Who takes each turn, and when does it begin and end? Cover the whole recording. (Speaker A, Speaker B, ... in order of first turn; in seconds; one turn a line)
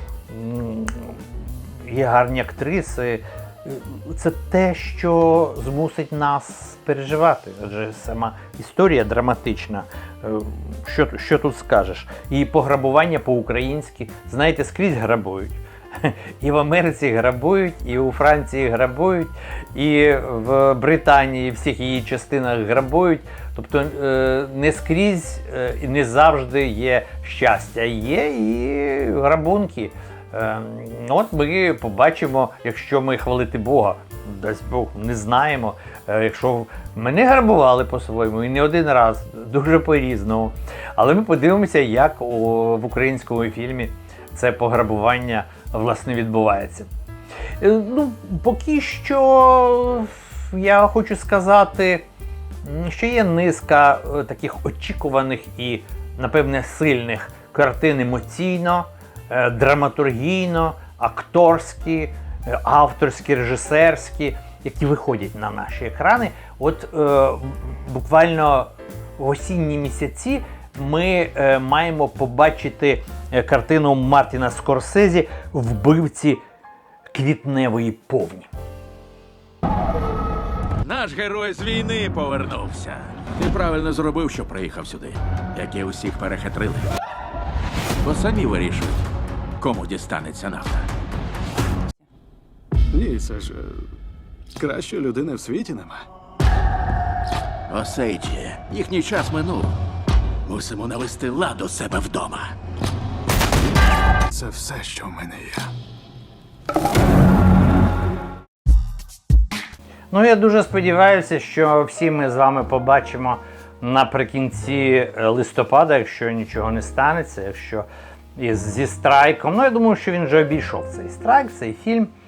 Speaker A: 0.3-46.9
Speaker A: 47.6-52.0
Speaker A: 52.6-76.4
Speaker A: 77.1-78.5
Speaker B: 80.8-86.9
Speaker B: 88.0-89.1
Speaker B: 89.6-90.9
Speaker C: 92.9-93.9
Speaker C: 94.6-96.0
Speaker B: 97.7-99.8
Speaker B: 100.5-102.5
Speaker C: 104.3-105.7
Speaker A: 110.1-122.1